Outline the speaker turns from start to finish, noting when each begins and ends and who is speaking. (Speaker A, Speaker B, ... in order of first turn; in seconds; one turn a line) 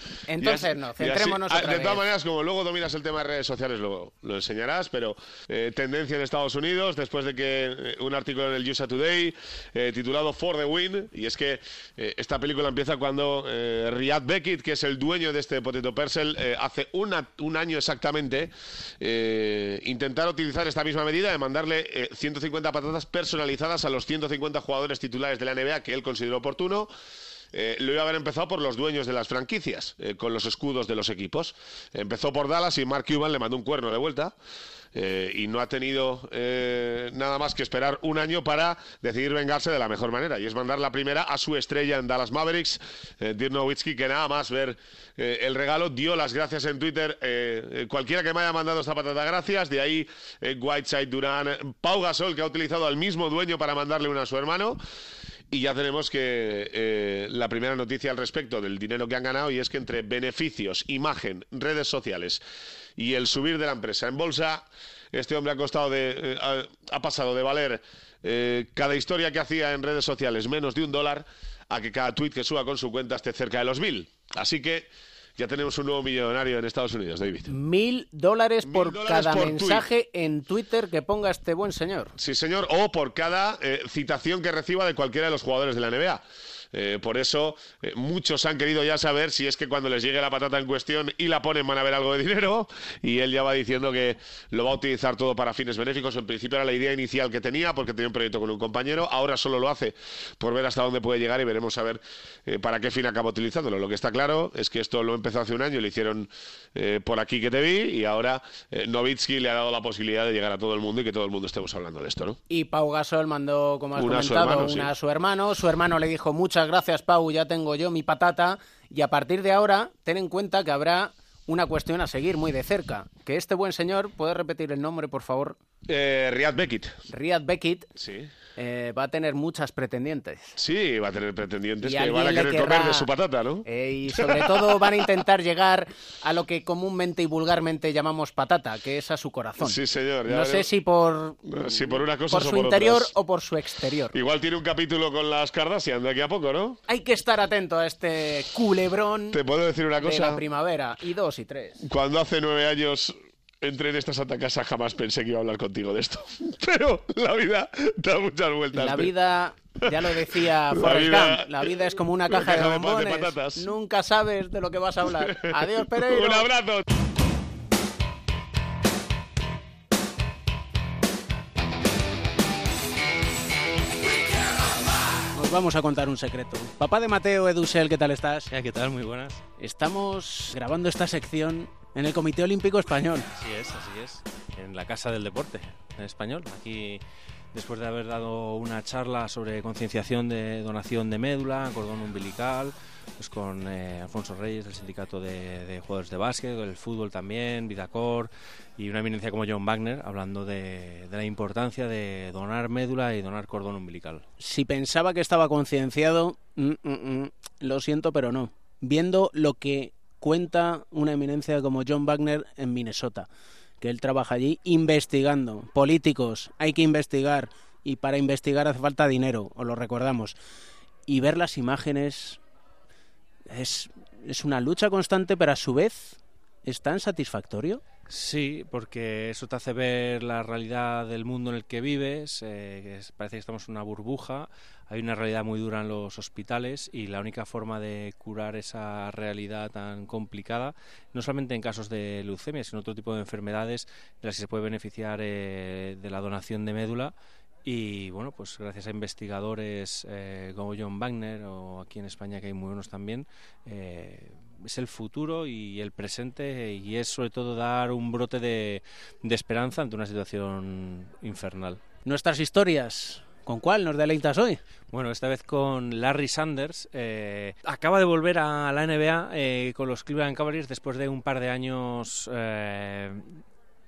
Speaker A: 0.3-2.1
Speaker B: 0.4-26.9
Speaker B: 27.5-34.3
Speaker B: 34.9-54.8
Speaker B: 55.5-62.4
Speaker B: 63.0-77.5
Speaker A: 77.5-82.1
Speaker B: 78.6-79.9
Speaker B: 82.2-86.2
Speaker B: 86.7-112.4
Speaker A: 112.5-125.6
Speaker B: 113.9-114.9
Speaker B: 125.9-127.0
Speaker A: 127.1-127.9
Speaker B: 128.0-128.3
Speaker A: 128.6-130.5
Speaker B: 130.6-133.6
Speaker A: 131.8-133.1
Speaker A: 133.6-144.2
Speaker B: 134.2-135.0
Speaker B: 139.6-140.7
Speaker B: 141.4-143.1
Speaker B: 144.1-146.8
Speaker A: 146.9-149.4
Speaker B: 149.3-150.4
Speaker A: 150.0-151.8
Speaker B: 151.8-159.1
Speaker A: 158.7-166.5
Speaker B: 160.7-163.7
Speaker B: 165.3-166.8
Speaker A: 175.3-178.5
Speaker C: 178.5-179.4
Speaker A: 179.6-183.3
Speaker C: 183.3-187.0
Speaker C: 187.5-204.2
Speaker A: 204.4-213.3
Speaker A: 213.8-220.3
Speaker A: 221.1-222.4
Speaker A: 223.5-227.8
Speaker C: 228.1-247.1
Speaker C: 247.6-261.8
Speaker A: 262.0-264.6
Speaker C: 264.9-273.4